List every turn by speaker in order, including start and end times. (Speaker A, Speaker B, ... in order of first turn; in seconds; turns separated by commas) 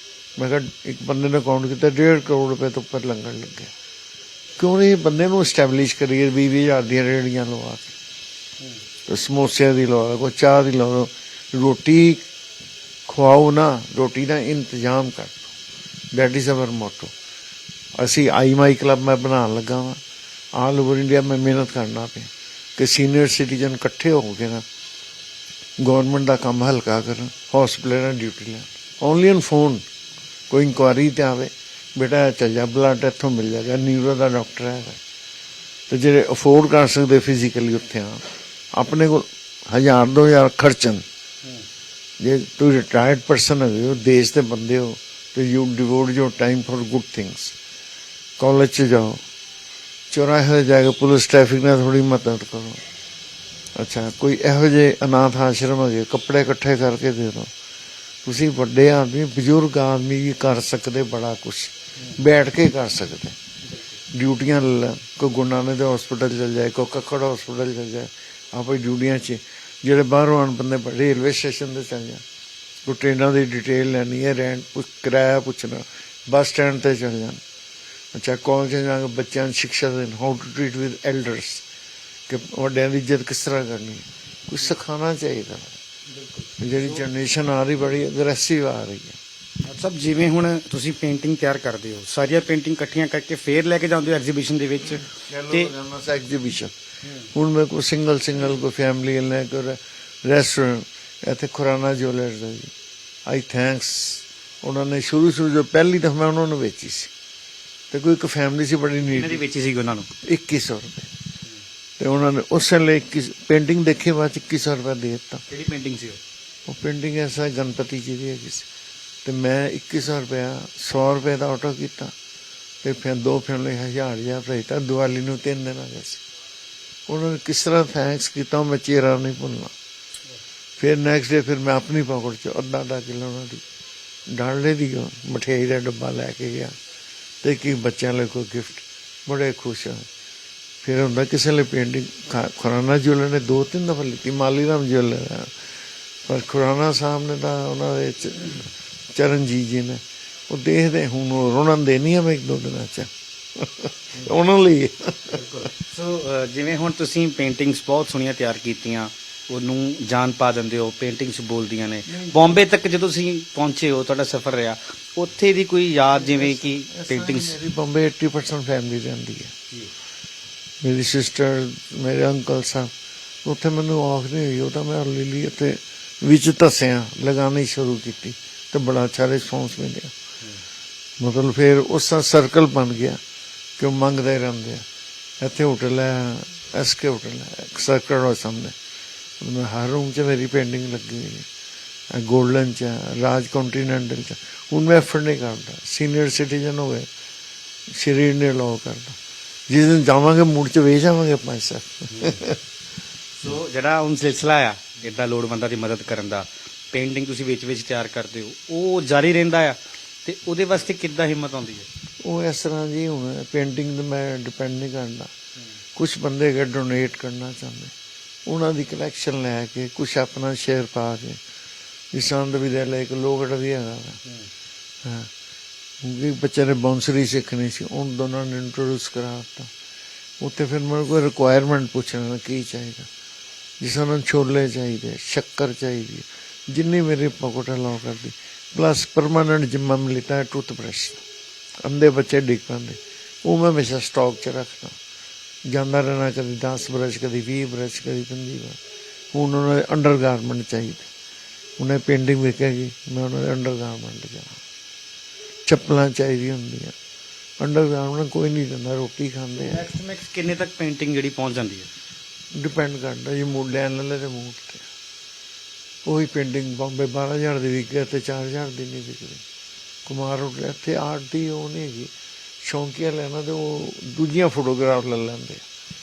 Speaker A: 0.4-3.7, Speaker A: 4.6-7.9, Speaker A: 9.1-12.2, Speaker A: 13.1-15.5, Speaker A: 16.1-17.1, Speaker A: 18.0-20.0, Speaker A: 20.6-24.6, Speaker A: 25.8-29.8, Speaker A: 30.5-35.0, Speaker A: 35.9-41.0, Speaker A: 42.2-47.5, Speaker A: 48.4-49.2, Speaker A: 50.1-52.8, Speaker A: 53.8-57.5, Speaker A: 58.2-63.4, Speaker B: 63.7-63.9, Speaker A: 64.1-72.2, Speaker A: 72.8-77.4, Speaker A: 78.1-81.6, Speaker A: 82.3-85.8, Speaker B: 86.1-87.0, Speaker A: 86.6-89.2, Speaker B: 89.6-95.7, Speaker A: 95.1-96.7, Speaker A: 97.3-102.7, Speaker A: 103.2-107.1, Speaker A: 107.9-109.4, Speaker B: 109.0-110.1, Speaker A: 110.2-111.1, Speaker A: 112.0-115.4, Speaker B: 115.5-116.2, Speaker A: 116.7-118.7, Speaker A: 119.2-122.1, Speaker A: 122.8-126.2, Speaker A: 127.1-129.7, Speaker A: 130.8-133.6, Speaker A: 134.3-136.7, Speaker A: 137.4-140.0, Speaker A: 140.8-145.5, Speaker A: 146.2-155.4, Speaker B: 155.3-167.6, Speaker A: 162.1-162.6, Speaker A: 166.1-169.5, Speaker A: 170.8-172.9, Speaker A: 173.4-180.1, Speaker A: 181.2-183.2, Speaker A: 183.8-184.8, Speaker A: 185.4-188.7, Speaker A: 189.4-191.5, Speaker A: 192.1-197.1, Speaker A: 197.9-199.2, Speaker A: 199.7-202.6, Speaker B: 202.1-202.4, Speaker B: 203.4-211.9, Speaker A: 212.2-215.3, Speaker A: 215.9-217.9, Speaker A: 218.4-221.4, Speaker A: 222.1-224.2, Speaker A: 225.0-225.3, Speaker A: 226.0-229.7, Speaker A: 230.4-233.1, Speaker A: 233.8-241.2, Speaker A: 241.8-244.9, Speaker A: 245.7-248.8, Speaker A: 249.3-251.1, Speaker A: 251.8-254.6, Speaker A: 255.7-256.9, Speaker A: 257.6-259.9, Speaker B: 259.5-261.9, Speaker A: 262.5-264.8, Speaker A: 266.0-269.4, Speaker A: 270.1-272.1, Speaker A: 272.6-275.6